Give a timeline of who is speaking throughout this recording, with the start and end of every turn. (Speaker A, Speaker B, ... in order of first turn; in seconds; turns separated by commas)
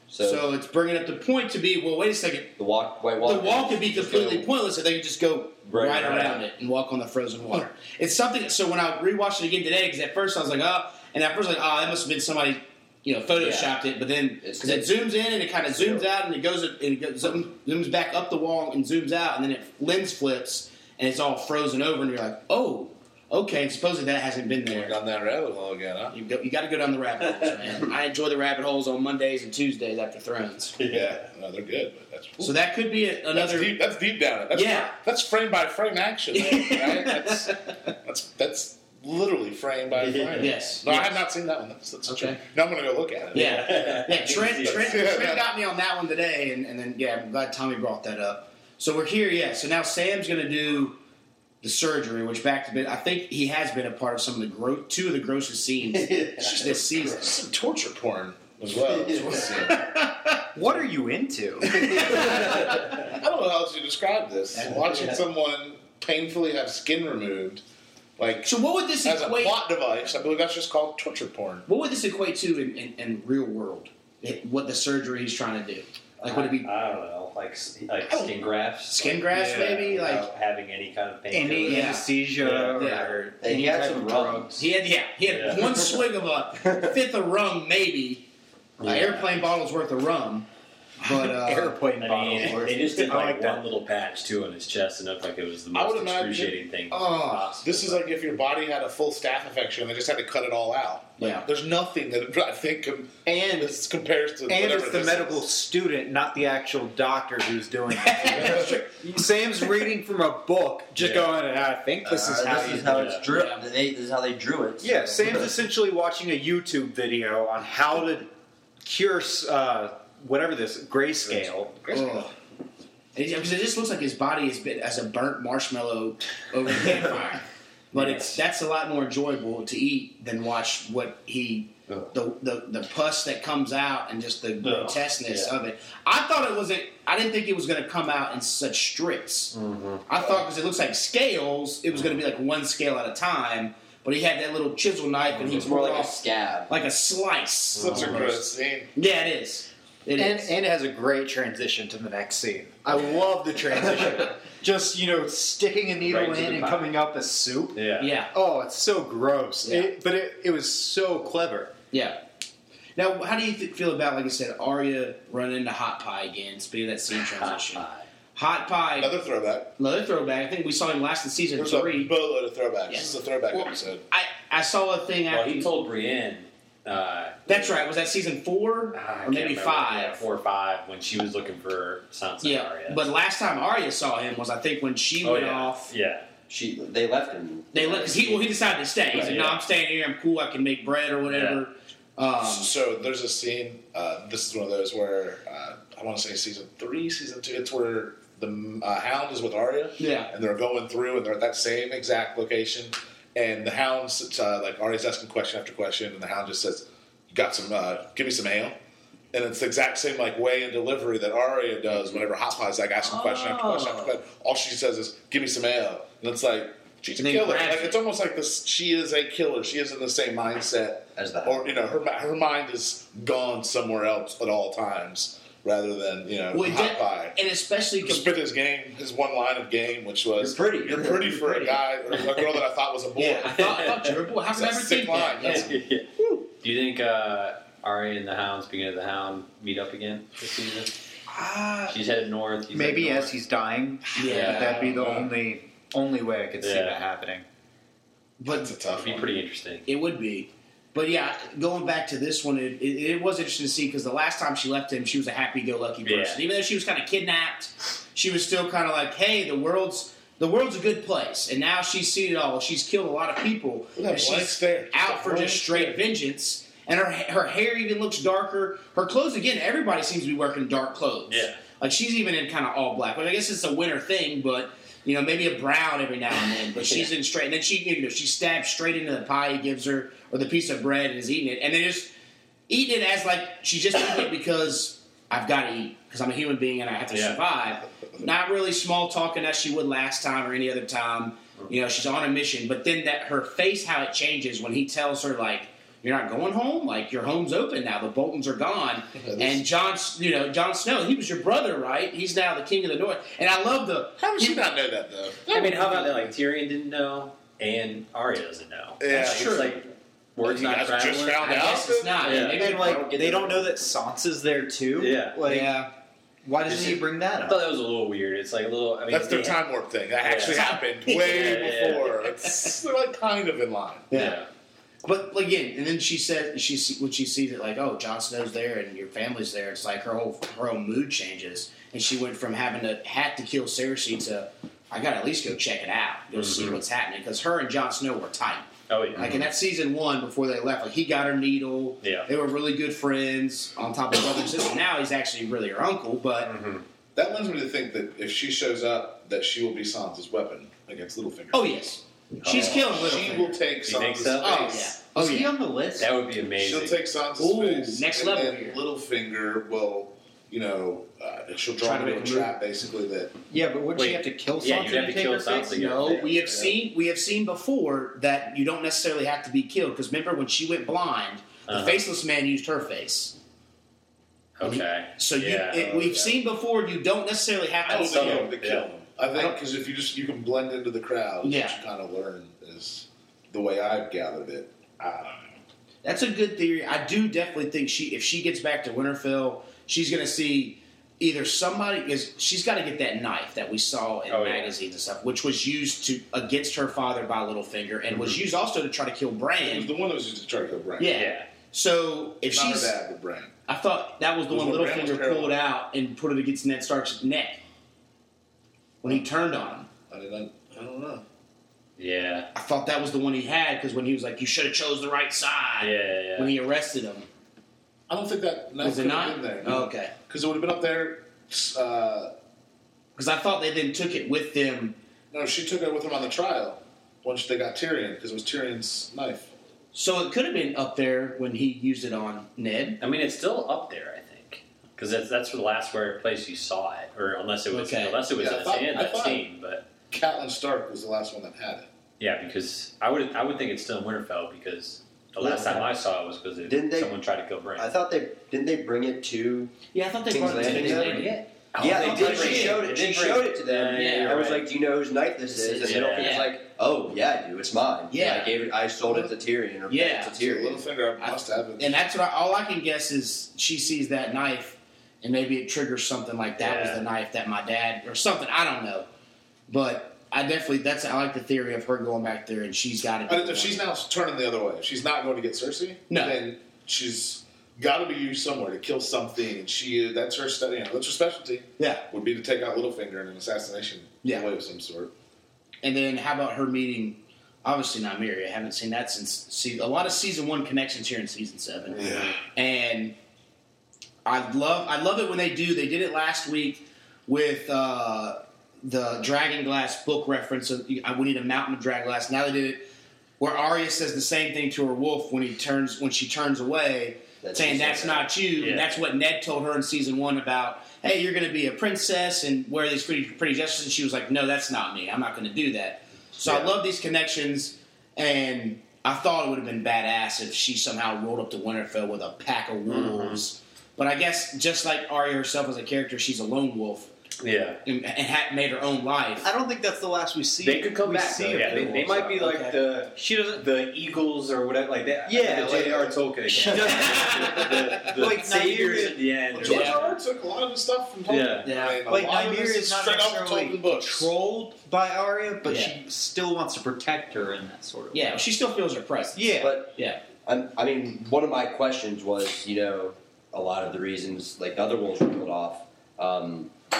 Speaker A: 0.1-0.5, Speaker B: 0.2-2.6, Speaker A: 2.6-4.5, Speaker B: 3.2-25.0, Speaker C: 5.7-6.4, Speaker A: 5.8-6.4, Speaker C: 13.4-13.7, Speaker A: 14.4-14.9, Speaker A: 15.8-16.0, Speaker D: 24.7-26.1, Speaker B: 26.1-30.8, Speaker C: 30.8-31.2, Speaker D: 30.9-32.5, Speaker B: 32.4-33.7, Speaker D: 33.3-43.6, Speaker B: 34.5-34.9, Speaker B: 36.3-37.7, Speaker C: 39.9-40.6, Speaker B: 40.4-41.2, Speaker B: 42.1-42.4, Speaker C: 43.3-45.2, Speaker B: 43.3-51.0, Speaker D: 44.6-45.4, Speaker B: 51.6-57.3, Speaker C: 55.9-57.0, Speaker D: 57.0-59.9, Speaker B: 59.7-60.3, Speaker E: 60.5-61.9, Speaker B: 61.7-62.7, Speaker D: 61.9-67.6, Speaker D: 68.2-71.7, Speaker B: 68.5-69.5, Speaker B: 71.7-76.7, Speaker C: 76.2-83.1, Speaker B: 78.9-80.3, Speaker E: 79.3-79.9, Speaker E: 81.3-84.5, Speaker B: 81.6-82.0, Speaker B: 82.8-83.2, Speaker A: 83.4-84.5, Speaker B: 84.6-88.2, Speaker C: 85.2-85.7, Speaker A: 85.5-86.0, Speaker A: 86.6-86.9, Speaker C: 88.8-89.6, Speaker B: 88.8-90.5, Speaker B: 91.0-91.8, Speaker E: 91.0-93.6, Speaker C: 92.0-98.0, Speaker D: 95.7-105.4, Speaker B: 101.2-101.5, Speaker E: 103.2-103.8, Speaker E: 104.5-113.2, Speaker B: 108.0-108.8, Speaker C: 111.0-111.3, Speaker A: 112.0-115.5, Speaker C: 112.7-113.2, Speaker B: 113.3-113.6, Speaker E: 114.8-118.3, Speaker E: 118.8-122.2, Speaker B: 121.9-122.3, Speaker B: 123.1-139.5, Speaker C: 127.9-128.4, Speaker C: 134.6-135.5, Speaker C: 139.5-140.0, Speaker B: 140.1-146.2, Speaker C: 141.9-142.2, Speaker C: 145.3-145.6, Speaker A: 145.4-146.7, Speaker B: 146.7-148.4, Speaker C: 147.7-148.3, Speaker D: 147.8-148.9, Speaker B: 148.9-150.5, Speaker E: 150.2-157.8, Speaker C: 156.0-156.9, Speaker C: 157.7-158.1, Speaker B: 158.0-158.3, Speaker E: 158.3-161.7, Speaker B: 159.6-159.9, Speaker B: 161.9-162.2, Speaker B: 162.9-167.8, Speaker C: 167.2-168.1, Speaker B: 168.3-169.1, Speaker D: 168.9-169.8, Speaker B: 169.8-172.1, Speaker D: 171.5-174.0, Speaker B: 172.9-175.7, Speaker C: 175.3-177.9, Speaker B: 177.5-180.2, Speaker C: 178.9-183.0, Speaker B: 182.4-185.9, Speaker C: 185.2-186.3, Speaker A: 186.5-188.5, Speaker B: 187.7-192.7, Speaker A: 189.1-189.5, Speaker C: 189.1-189.6, Speaker C: 191.3-191.6, Speaker D: 192.4-208.8, Speaker B: 200.0-200.3, Speaker D: 209.3-227.4, Speaker B: 213.0-214.2, Speaker B: 217.2-218.0, Speaker A: 221.2-221.8, Speaker B: 226.5-228.3, Speaker D: 228.0-233.8, Speaker A: 230.4-231.5, Speaker B: 231.2-231.8, Speaker B: 233.2-236.4, Speaker C: 233.4-234.2, Speaker D: 234.5-235.8, Speaker C: 235.4-240.9, Speaker E: 241.3-241.9, Speaker C: 241.9-243.3, Speaker E: 242.7-247.4, Speaker B: 244.2-245.2, Speaker C: 244.2-244.7, Speaker D: 244.3-245.3, Speaker C: 246.6-247.0, Speaker B: 248.4-248.7, Speaker D: 248.4-249.3, Speaker C: 248.9-249.9, Speaker B: 249.8-282.1, Speaker C: 256.0-256.4, Speaker D: 263.9-266.0, Speaker C: 271.3-271.6, Speaker B: 282.7-304.6, Speaker C: 287.1-287.4, Speaker D: 288.0-288.3, Speaker D: 299.1-299.6, Speaker D: 304.2-306.3, Speaker C: 305.5-311.7, Speaker D: 309.0-309.8, Speaker B: 309.1-309.7, Speaker D: 310.4-313.6, Speaker B: 311.4-313.1, Speaker C: 312.2-312.7, Speaker E: 312.5-315.9, Speaker C: 314.9-315.4, Speaker B: 315.4-315.9, Speaker E: 316.4-317.6, Speaker C: 316.7-319.6, Speaker D: 319.1-324.1, Speaker C: 320.2-322.2, Speaker B: 320.4-322.0, Speaker B: 324.1-324.4, Speaker C: 324.1-324.5, Speaker B: 325.0-346.5, Speaker C: 336.3-336.8, Speaker C: 338.9-339.5, Speaker C: 342.0-342.3, Speaker C: 346.4-346.8, Speaker D: 347.1-351.7, Speaker B: 351.5-353.6, Speaker C: 352.4-353.3, Speaker D: 352.4-354.9, Speaker C: 353.8-354.8, Speaker B: 354.4-355.5, Speaker E: 355.1-356.1, Speaker C: 356.0-357.0, Speaker D: 356.6-363.3, Speaker B: 357.4-358.8, Speaker B: 361.8-362.5, Speaker E: 363.5-365.8, Speaker C: 363.9-366.8, Speaker B: 365.7-373.3, Speaker C: 371.7-372.0, Speaker C: 374.6-376.4, Speaker B: 374.6-378.5, Speaker C: 377.8-378.9, Speaker D: 377.9-385.6, Speaker B: 379.3-379.6, Speaker B: 381.4-381.8, Speaker B: 386.0-399.9, Speaker C: 394.3-394.7, Speaker C: 398.1-398.4, Speaker D: 399.6-401.1, Speaker B: 401.0-402.9, Speaker C: 401.1-401.5, Speaker D: 402.5-403.5, Speaker B: 403.7-407.6, Speaker D: 404.5-405.6, Speaker B: 409.0-409.9, Speaker D: 410.1-411.2, Speaker C: 412.0-412.5, Speaker B: 412.5-417.3, Speaker C: 415.8-416.5, Speaker D: 418.1-422.3, Speaker B: 418.8-420.1, Speaker B: 423.1-424.9, Speaker D: 425.3-429.5, Speaker B: 429.9-433.0, Speaker C: 433.0-439.9, Speaker B: 437.7-438.2, Speaker D: 438.4-439.4, Speaker D: 440.1-441.9, Speaker C: 442.2-447.9, Speaker A: 445.4-445.9, Speaker A: 446.6-447.1, Speaker A: 447.8-449.7, Speaker B: 449.9-452.9, Speaker A: 450.3-460.8, Speaker C: 450.4-454.7, Speaker B: 453.9-454.4, Speaker C: 455.6-456.4, Speaker B: 455.8-456.5, Speaker B: 458.1-458.6, Speaker D: 459.1-459.3, Speaker B: 459.9-460.4, Speaker D: 460.4-462.0, Speaker B: 461.2-469.1, Speaker C: 466.6-467.1, Speaker B: 469.7-473.8, Speaker D: 473.3-485.1, Speaker B: 476.1-476.4, Speaker B: 481.8-482.0, Speaker B: 485.8-493.1, Speaker D: 491.9-492.4, Speaker B: 494.2-502.9, Speaker B: 503.4-527.1, Speaker A: 507.4-508.3, Speaker C: 508.6-509.0, Speaker C: 516.4-516.7, Speaker C: 522.9-523.4, Speaker C: 527.4-527.8, Speaker B: 527.8-529.5, Speaker E: 529.4-532.5, Speaker C: 530.6-540.1, Speaker B: 532.2-532.8, Speaker E: 535.2-539.2, Speaker B: 537.0-537.5, Speaker D: 539.5-544.3, Speaker B: 539.6-540.0, Speaker C: 541.3-541.7, Speaker B: 541.6-542.0, Speaker E: 542.0-548.4, Speaker B: 545.6-545.9, Speaker B: 548.1-550.2, Speaker E: 549.3-549.8, Speaker A: 549.6-556.7